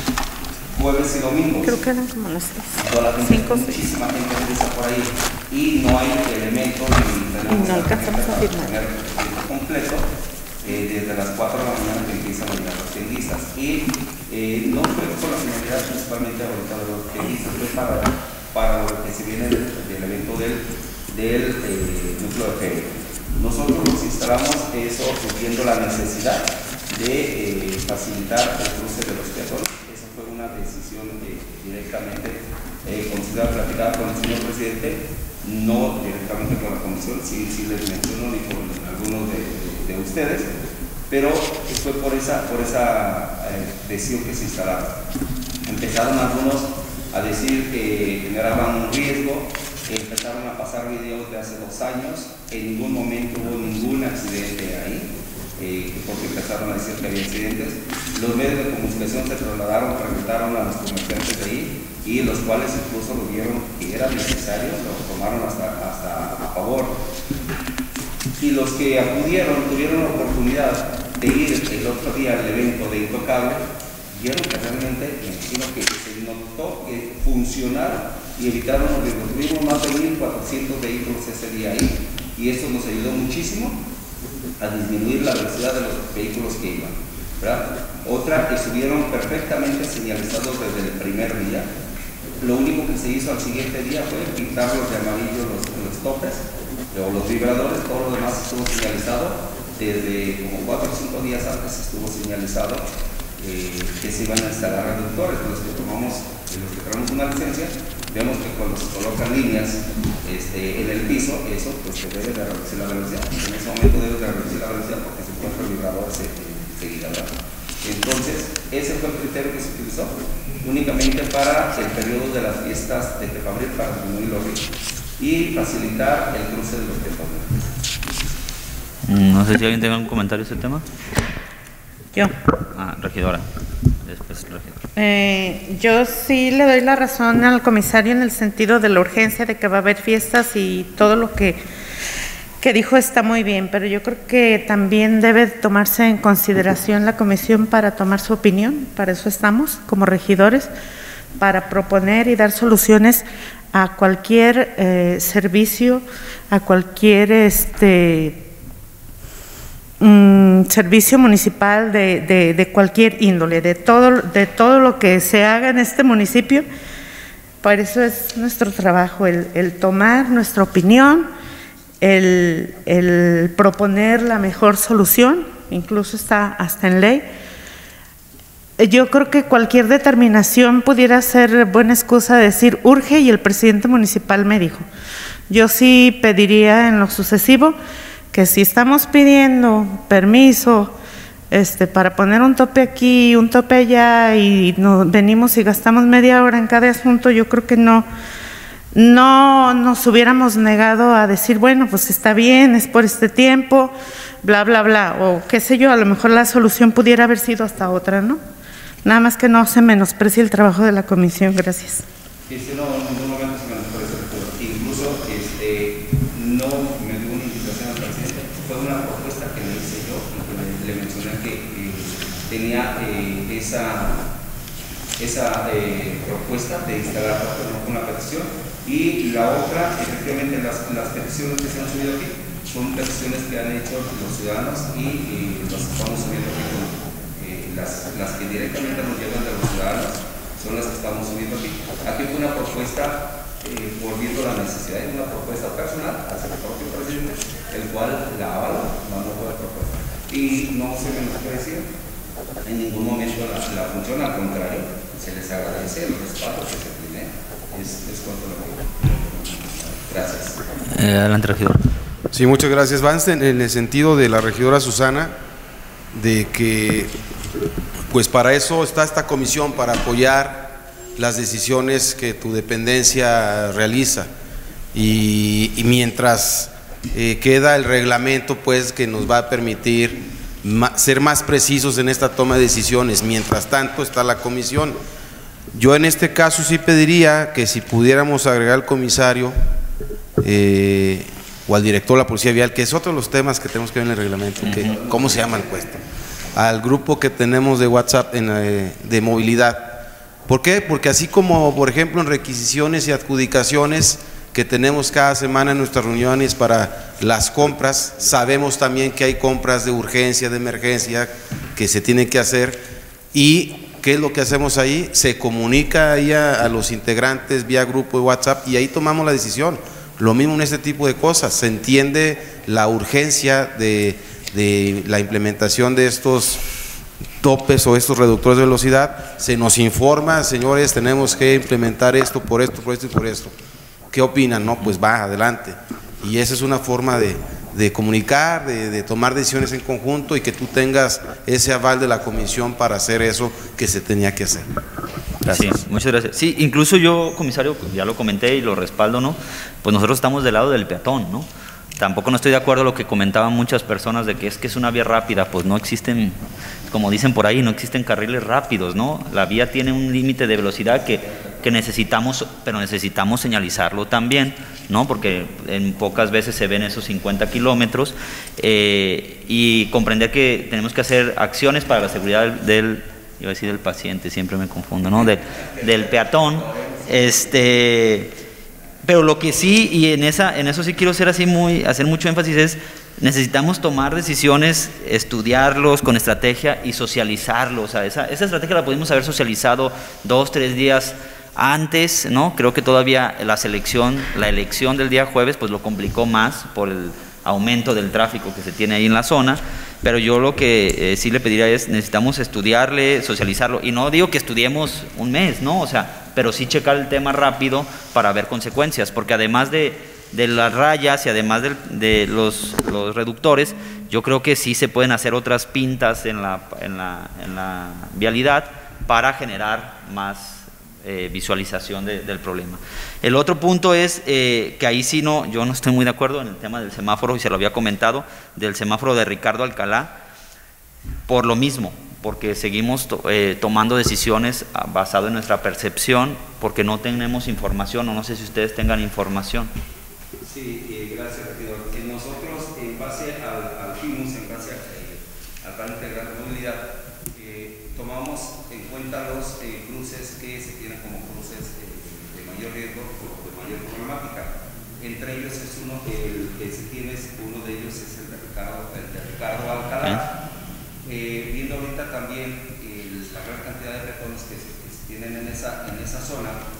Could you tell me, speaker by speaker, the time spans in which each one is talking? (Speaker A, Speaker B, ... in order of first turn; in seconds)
Speaker A: 0.7-1.8, 2.7-10.1, 10.6-40.5, 41.1-45.0, 45.6-67.0, 68.4-83.8, 84.6-91.7, 92.4-127.6, 212.5-224.3, 225.2-251.9, 252.6-260.6, 294.6-296.0, 375.2-377.6, 440.4-460.3, 461.0-466.6
Speaker B: 1.6-3.8, 7.5-8.7, 134.9-141.6, 142.6-150.7, 151.4-158.4, 160.0-166.7, 167.6-171.3, 172.0-177.3, 178.8-184.8, 185.5-187.8, 188.3-190.9, 191.5-198.1, 198.9-208.4, 209.0-212.1
Speaker C: 129.1-130.8, 132.7-133.4, 134.0-134.8, 260.9-261.9, 294.6-295.0, 345.5-351.5, 352.0-378.4, 379.0-430.1, 431.3-439.7
Speaker D: 262.3-265.3, 266.1-267.1, 268.1-274.3, 274.9-285.0, 285.7-289.6, 290.4-296.0, 296.5-326.6, 327.4-333.5, 334.1-344.7, 345.4-345.8